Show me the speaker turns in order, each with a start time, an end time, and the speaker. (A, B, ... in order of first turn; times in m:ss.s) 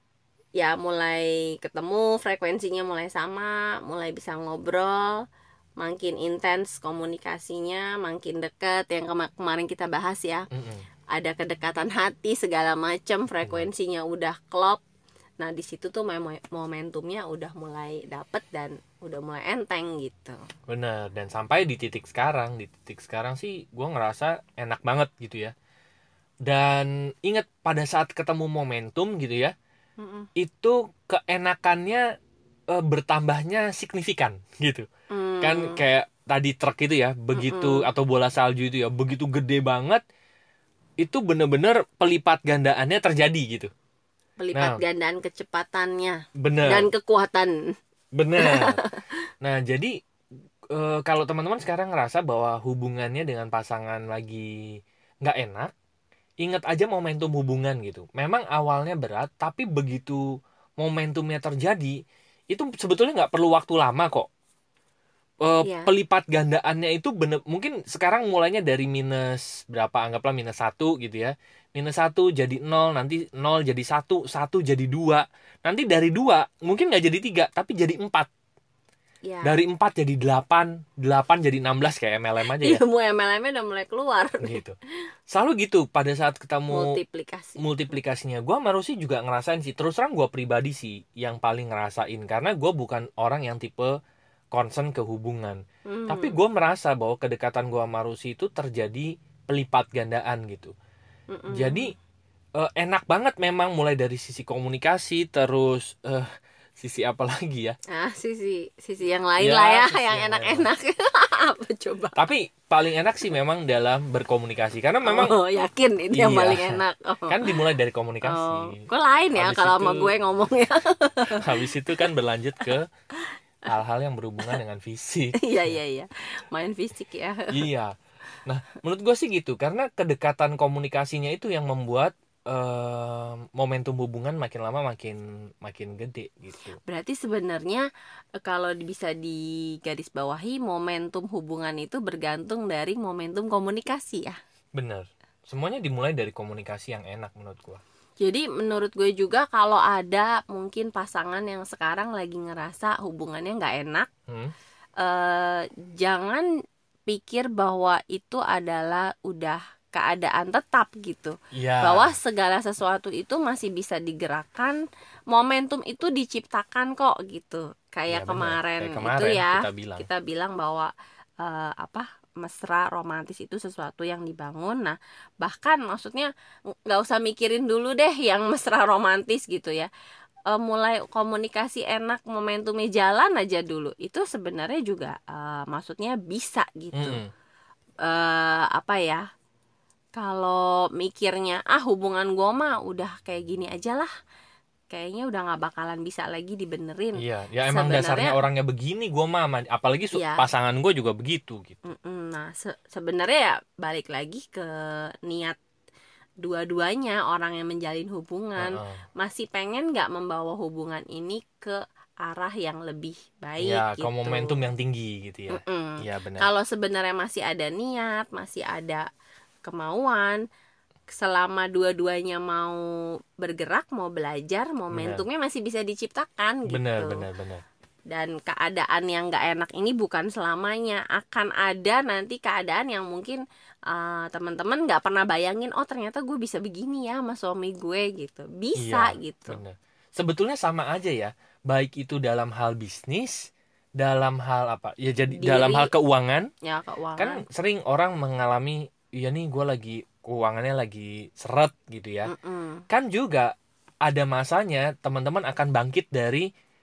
0:00.6-0:05.2 A
0:05.8-0:10.5 A
0:10.5-0:10.9 B
0:11.1-0:14.8 A
0:15.4-0:20.4 A
0:20.7-0:25.5 B
0:26.4-0:29.5 B
0:30.0-0:30.3 A
0:30.4-0:32.1 B
0:32.7-0:34.9 B
0:35.1-0:35.8 A
0:35.4-0:40.0 B
0:37.3-0:37.9 A
0:41.0-0:43.7 B
0:44.4-0:47.6 A
0:44.5-0:44.8 B
0:46.4-0:46.9 B
0:48.1-0:48.8 B
0:48.4-0:49.1 A
0:49.4-0:50.0 B
0:50.7-0:55.7 B
0:56.4-1:02.0 B
1:02.5-1:04.3 B
1:05.4-1:18.3 B
1:05.6-1:05.9 A
1:19.3-1:19.6 A
1:19.4-1:22.8 B
1:22.5-1:24.6 A
1:24.4-1:24.8 B
1:25.3-1:27.0 B
1:26.7-1:27.9 A
1:27.6-1:34.0 B
1:34.5-1:40.7 B
1:35.9-1:36.4 A
1:41.3-1:41.9 A
1:41.5-1:41.9 B
1:42.6-1:47.8 B
1:47.9-1:52.2 A
1:49.4-1:50.7 B
1:52.2-1:55.4 B
1:55.0-1:57.7 A
1:56.1-2:00.2 B
1:58.2-2:02.1 A
2:01.3-2:02.9 B
2:03.7-2:05.8 B
2:05.4-2:07.6 A
2:07.5-2:16.8 B
2:16.9-2:17.8 A
2:18.4-2:24.4 A
2:24.8-2:27.8 B
2:28.2-2:34.1 A
2:34.3-2:34.5 B
2:35.0-2:36.5 A
2:37.1-2:44.8 A
2:41.5-2:42.1 B
2:45.3-2:50.9 A
2:48.1-2:50.1 B
2:51.4-2:56.3 A
2:56.9-2:59.9 A
3:00.5-3:07.2 A
3:07.0-3:07.3 B
3:08.0-3:09.2 A
3:10.2-3:14.1 A
3:14.9-3:18.3 A
3:17.2-3:21.8 B
3:20.1-3:20.4 A
3:21.8-3:25.6 A
3:26.4-3:34.6 A
3:28.6-3:29.0 B
3:33.6-3:36.5 B
3:35.5-3:39.0 A
3:39.6-3:40.4 A
3:41.1-3:42.8 A
3:43.4-3:47.2 A
3:44.9-3:45.2 B
3:46.7-3:47.6 B
3:48.1-3:59.6 A
3:58.8-4:06.5 B
4:05.3-4:05.9 A
4:06.6-4:07.4 A
4:07.2-4:12.3 B
4:12.3-4:12.8 A
4:12.9-4:13.5 B
4:14.1-4:16.5 B